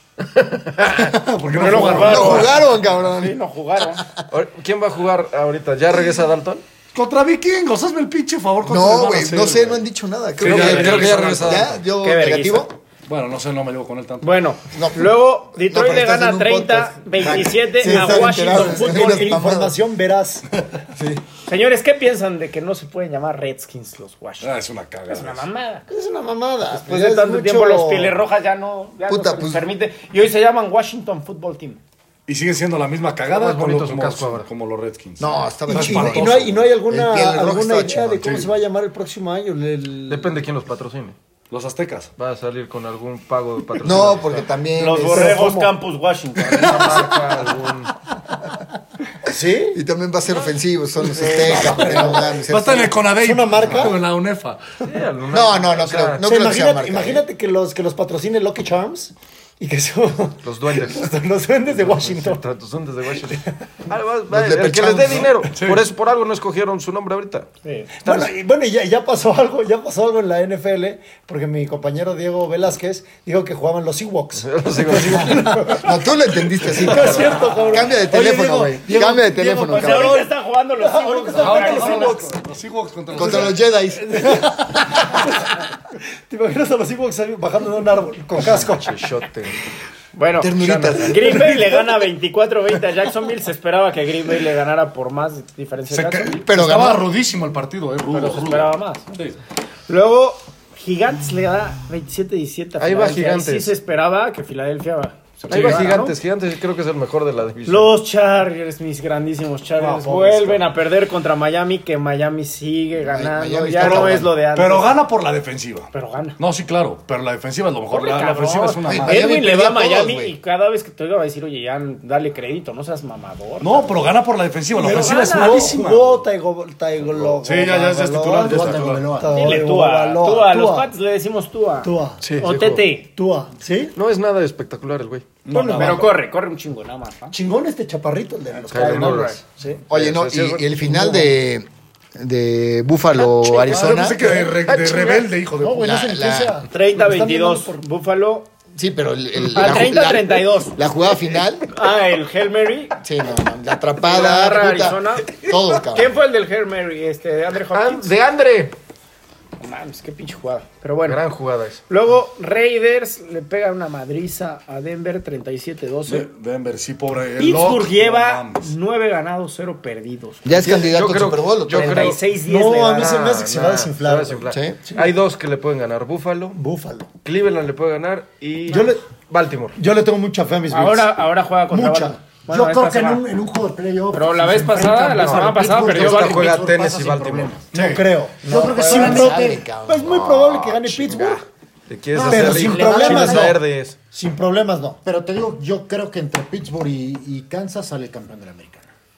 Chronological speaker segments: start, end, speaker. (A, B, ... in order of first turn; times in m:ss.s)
0:01.1-0:02.6 A
0:01.5-0:04.0 B
0:01.8-0:03.4 C
0:03.9-0:04.2 C
0:04.3-0:06.6 D
0:06.9-0:09.8 A
0:08.6-0:12.7 C
0:10.4-0:11.6 A
0:10.4-0:11.8 D
0:11.9-0:12.7 B
0:13.0-0:14.4 A
0:14.2-0:19.3 B
0:14.7-0:19.8 C
0:17.3-0:20.4 E
0:21.0-0:21.2 C
0:21.4-0:24.5 B
0:24.4-0:25.4 A
0:25.1-0:25.9 B
0:25.9-0:28.2 E
0:26.7-0:31.8 B
0:29.1-0:29.6 C
0:32.3-0:36.5 A
0:33.3-0:34.5 D
0:35.2-0:38.5 C
0:35.7-0:40.4 E
0:38.2-0:38.5 A
0:40.1-0:41.2 D
0:41.5-0:42.1 A
0:42.2-0:44.5 D
0:43.8-0:45.4 C
0:44.8-0:47.1 B
0:45.0-0:45.7 E
0:46.5-0:47.9 D
0:49.2-0:49.8 E
0:49.7-0:53.0 C
0:51.1-0:52.4 E
0:52.4-0:54.6 A
0:53.1-0:54.0 E
0:54.8-0:56.2 D
0:55.3-0:57.2 C
0:56.2-1:02.4 E
1:00.4-1:01.1 D
1:01.6-1:07.5 D
1:04.3-1:05.4 C
1:05.5-1:05.8 A
1:07.6-1:07.9 B
1:08.0-1:16.0 E
1:08.0-1:08.3 D
1:14.4-1:15.7 D
1:15.6-1:20.3 C
1:16.6-1:22.4 E
1:16.8-1:17.6 D
1:19.6-1:22.3 B
1:21.3-1:23.7 A
1:23.1-1:24.5 C
1:24.1-1:29.1 E
1:28.5-1:29.5 D
1:30.1-1:36.4 B
1:30.4-1:31.5 C
1:35.9-1:39.4 A
1:36.4-1:37.1 C
1:38.1-1:39.1 B
1:39.9-1:46.1 B
1:42.8-1:43.7 D
1:45.5-1:45.9 A
1:45.5-1:47.9 D
1:45.6-1:46.0 E
1:47.6-1:55.0 B
1:49.8-1:50.4 E
1:50.1-1:50.5 A
1:53.0-1:54.4 C
1:53.8-1:59.4 A
1:55.9-1:56.4 B
1:57.9-2:04.1 B
1:58.8-2:00.4 C
2:03.6-2:06.2 A
2:04.8-2:10.9 E
2:04.8-2:05.5 B
2:07.2-2:09.2 A
2:08.4-2:09.6 F
2:09.3-2:13.1 B
2:11.8-2:12.2 E
2:12.2-2:12.8 D
2:13.1-2:13.9 E
2:13.9-2:15.3 D
2:15.4-2:16.1 A
2:15.5-2:16.0 E
2:15.7-2:17.3 B
2:17.3-2:19.8 E
2:18.7-2:20.7 D
2:18.7-2:19.4 B
2:19.9-2:24.5 C
2:20.8-2:21.3 E
2:23.3-2:26.0 A
2:24.3-2:27.8 E
2:24.7-2:25.2 D
2:25.8-2:26.6 C
2:26.7-2:28.5 B
2:28.7-2:31.7 C
2:29.5-2:30.8 B
2:31.6-2:33.0 B
2:33.0-2:36.1 C
2:34.0-2:35.3 B
2:35.8-2:38.1 B
2:37.7-2:38.8 D
2:39.6-2:41.2 B
2:41.0-2:41.8 D
2:41.9-2:46.3 B
2:46.0-2:48.7 A
2:47.4-2:50.9 B
2:50.4-2:52.2 C
2:50.6-2:52.2 D
2:51.7-2:53.2 B
2:52.3-2:55.1 E
2:52.9-2:56.6 D
2:54.5-2:54.8 C
2:56.5-2:57.1 E
2:57.2-2:59.8 D
2:58.7-2:59.0 E
2:59.8-3:01.1 E
3:00.7-3:03.2 B
3:01.7-3:02.2 E
3:02.5-3:07.7 F
3:04.1-3:06.5 B
3:05.2-3:07.5 D
3:07.7-3:08.0 A
3:07.7-3:11.4 E
3:08.4-3:09.6 F
3:08.7-3:10.4 C
3:10.1-3:14.0 D
3:12.1-3:13.6 F
3:12.2-3:13.6 E
3:14.1-3:15.0 E
3:15.0-3:18.9 F